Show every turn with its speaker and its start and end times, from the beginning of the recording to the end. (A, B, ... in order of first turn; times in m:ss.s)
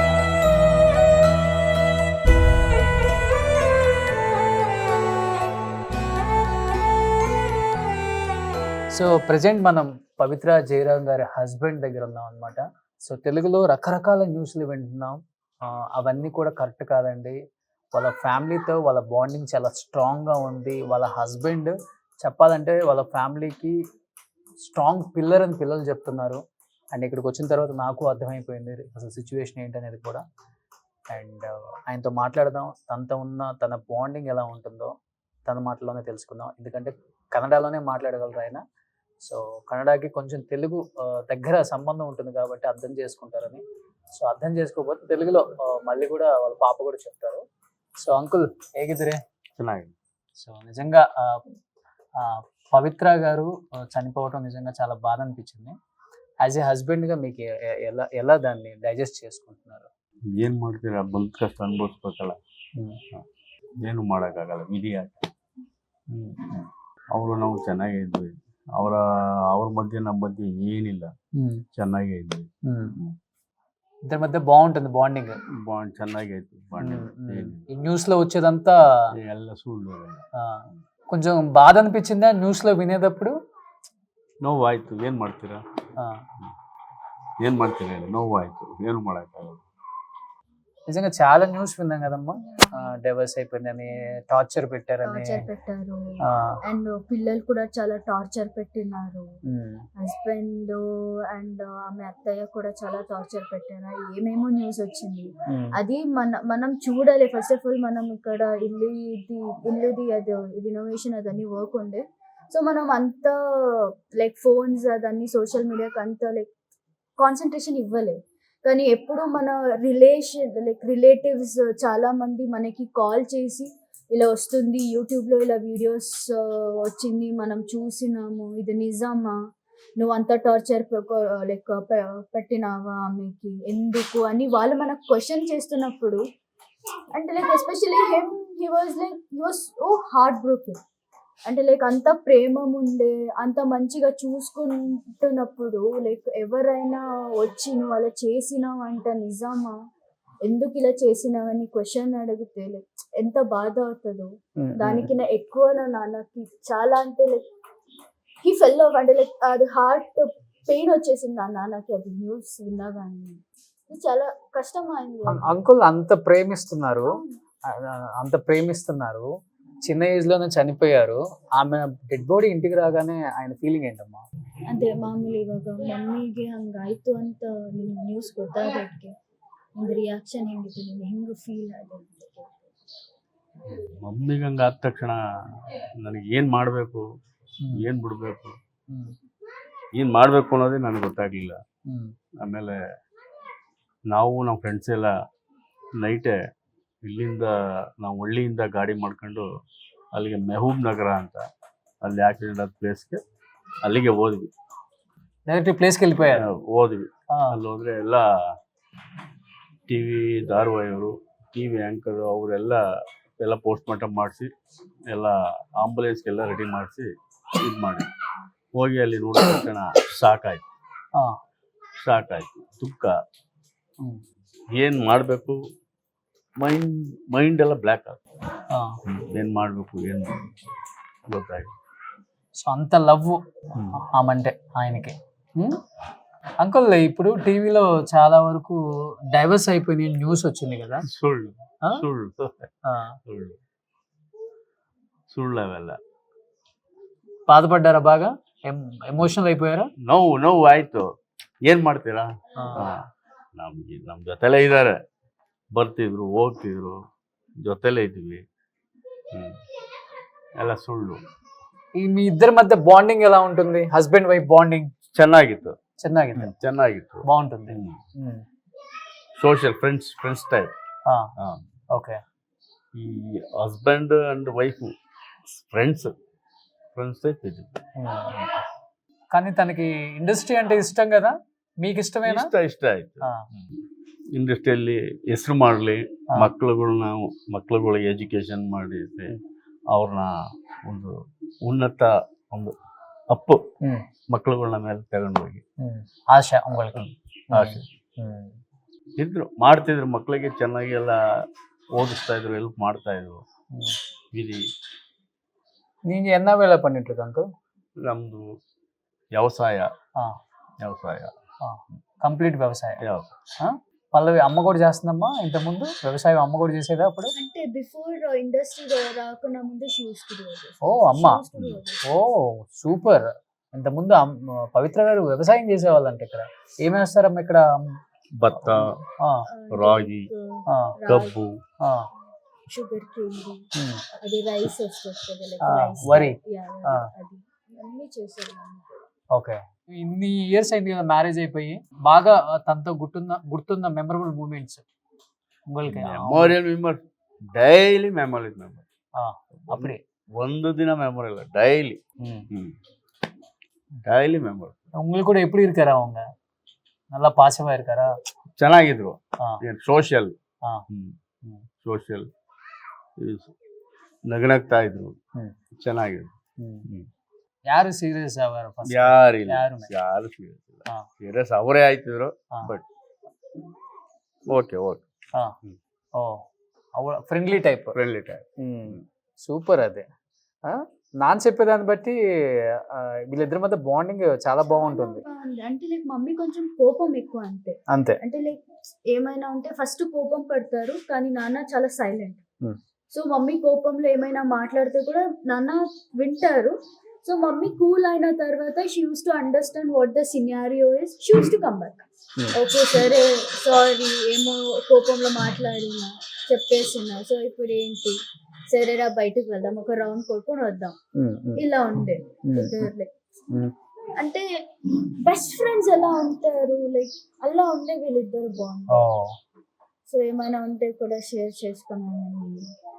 0:08.9-0:17.4 A
0:17.9-0:23.8 A
0:24.6-0:26.4 A
0:26.9-0:30.2 A
0:31.1-0:34.9 A
0:35.4-0:38.6 A
0:39.2-0:43.6 A
0:44.2-0:47.4 A
0:48.0-0:49.2 A
0:49.6-0:49.9 B
0:50.4-0:51.4 A
0:52.2-0:55.7 A
0:56.4-0:59.9 A
1:00.3-1:02.4 B
1:03.8-1:05.1 B
1:07.1-1:11.1 B
1:11.3-1:11.6 A
1:11.7-1:12.5 B
1:12.6-1:13.0 A
1:14.1-1:15.4 A
1:15.6-1:17.6 B
1:16.8-1:18.8 A
1:19.2-1:20.2 B
1:20.4-1:23.3 A
1:24.4-1:25.6 B
1:27.4-1:29.6 B
1:30.9-1:35.5 A
1:35.0-1:39.3 C
1:36.2-1:36.5 A
1:39.5-1:39.8 A
1:40.0-1:56.5 C
1:45.5-1:45.7 A
1:57.2-2:09.4 C
2:10.0-2:16.2 C
2:17.1-2:20.8 C
2:21.5-2:29.8 C
2:30.4-2:37.4 C
2:34.6-2:35.1 A
2:38.4-2:45.5 C
2:45.3-2:47.2 A
2:47.0-2:47.4 C
2:47.7-2:49.3 A
2:49.8-2:54.2 A
2:54.7-2:59.1 C
2:59.8-3:02.7 C
3:03.7-3:05.2 B
3:06.0-3:07.0 B
3:07.6-3:07.9 A
3:07.7-3:08.5 B
3:08.9-3:09.1 A
3:10.0-3:11.6 B
3:12.4-3:12.8 B
3:14.1-3:15.1 B
3:16.0-3:16.3 B
3:17.0-3:19.4 B
3:20.1-3:21.4 B
3:22.0-3:23.2 B
3:23.8-3:24.5 B
3:25.5-3:26.5 A
3:26.3-3:28.3 B
3:27.3-3:27.6 A
3:29.9-3:32.8 B
3:33.4-3:34.5 B
3:35.1-3:38.1 B
3:38.7-3:40.6 B
3:42.0-3:43.2 B
3:44.7-3:45.6 B
3:46.6-3:48.2 B
3:49.1-3:50.5 B
3:51.3-3:51.7 B
3:52.6-3:53.4 A
3:53.7-3:54.0 B
3:53.9-3:55.8 A
3:56.6-3:58.8 A
3:59.3-4:01.1 A
4:01.1-4:02.7 B
4:02.8-4:03.2 A
4:03.3-4:03.6 B
4:05.3-4:06.0 B
4:07.5-4:09.9 A
4:10.0-4:11.1 B
4:11.6-4:13.0 B
4:12.6-4:12.9 A
4:13.6-4:15.0 B
4:15.7-4:17.0 B
4:17.6-4:18.4 B
4:20.6-4:21.2 B
4:22.0-4:24.9 A
4:25.1-4:25.7 B
4:26.0-4:26.5 A
4:26.4-4:28.0 B
4:27.2-4:28.4 A
4:29.4-4:30.7 B
4:31.9-4:32.2 A
4:32.9-4:34.9 B
4:35.5-4:36.1 B
4:37.0-4:37.8 B
4:38.0-4:38.4 A
4:39.3-4:42.5 A
4:42.2-4:43.8 B
4:44.3-4:49.4 B
4:49.9-4:50.3 B
4:50.8-4:52.7 B
4:53.3-4:53.6 B
4:54.3-4:55.6 B
4:55.8-4:58.6 A
4:56.9-4:57.8 B
4:59.2-5:01.2 B
5:01.9-5:03.4 B
5:03.7-5:04.0 A
5:04.3-5:04.6 B
5:06.1-5:07.4 A
5:08.0-5:08.4 B
5:09.3-5:09.9 B
5:10.8-5:11.3 B
5:11.6-5:13.0 A
5:13.0-5:13.3 B
5:13.6-5:17.3 A
5:17.4-5:22.2 C
5:20.8-5:21.4 A
5:22.0-5:27.8 A
5:28.4-5:29.0 B
5:28.6-5:29.4 A
5:29.5-5:31.3 C
5:29.7-5:30.3 B
5:30.7-5:30.9 A
5:31.1-5:31.6 B
5:31.8-5:32.1 A
5:32.7-5:33.7 C
5:33.8-5:34.0 A
5:34.2-5:39.0 C
5:35.6-5:36.4 A
5:39.3-5:44.8 A
5:45.7-5:46.6 A
5:45.8-5:47.0 B
5:47.5-5:48.8 B
5:49.2-5:50.0 A
5:49.6-5:52.0 B
5:52.2-5:52.5 A
5:54.0-5:54.8 B
5:55.0-5:56.2 A
5:57.1-5:58.1 A
5:58.6-6:00.3 B
6:01.8-6:02.3 B
6:03.2-6:03.5 B
6:04.3-6:05.2 B
6:05.8-6:06.3 B
6:06.6-6:06.8 A
6:07.7-6:09.9 A
6:08.9-6:12.8 B
6:14.5-6:15.0 B
6:16.1-6:16.4 A
6:17.0-6:18.0 A
6:17.9-6:19.0 B
6:18.6-6:20.0 A
6:20.6-6:22.1 A
6:22.9-6:25.2 A
6:24.6-6:32.4 C
6:27.9-6:28.2 A
6:33.1-6:48.2 C
6:48.7-6:51.0 C
6:51.2-6:51.6 A
6:51.6-6:53.1 C
6:52.5-6:52.9 A
6:54.2-6:59.1 C
6:58.9-6:59.3 A
7:00.0-7:02.7 C